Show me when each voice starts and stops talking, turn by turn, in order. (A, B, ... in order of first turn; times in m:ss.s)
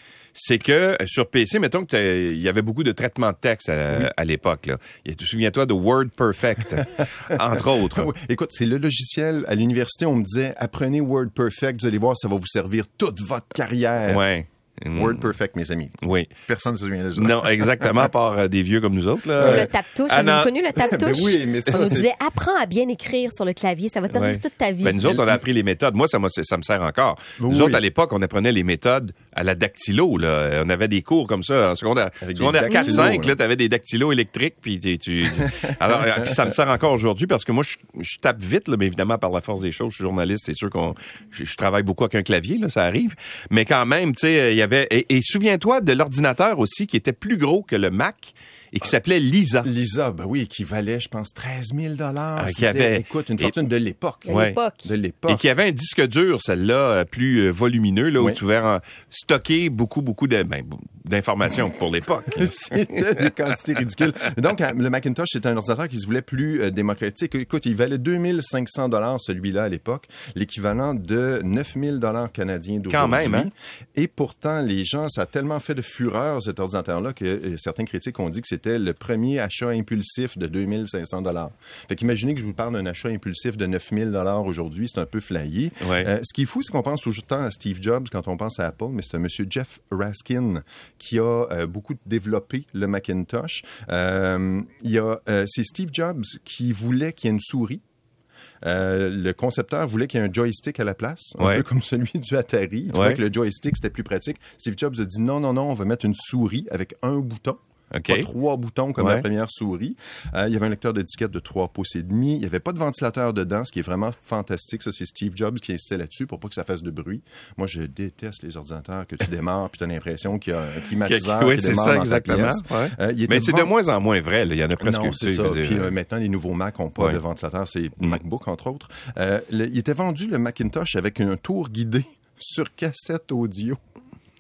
0:00.3-0:08.1 A
0:06.8-0:14.3 B
0:14.1-0:15.3 A
0:15.0-0:18.1 B
0:16.0-0:16.3 A
0:17.2-0:20.5 A
0:19.4-0:25.0 C
0:19.4-0:19.7 B
0:20.7-0:22.1 B
0:24.1-0:49.7 A
0:25.0-0:25.4 B
0:27.4-0:27.8 B
0:32.2-0:33.4 B
0:32.7-0:33.1 C
0:35.4-0:36.3 B
0:49.6-0:55.4 B
0:52.4-0:53.6 A
0:54.3-0:54.9 C
0:54.3-0:54.6 A
0:55.3-1:02.6 A
1:02.3-1:37.8 B
1:12.9-1:13.5 A
1:25.8-1:26.1 A
1:38.6-2:03.7 B
1:41.4-1:41.6 A
1:42.9-1:43.2 A
1:47.9-1:48.3 A
1:49.0-1:49.2 A
2:01.0-2:06.0 A
2:04.8-2:13.8 B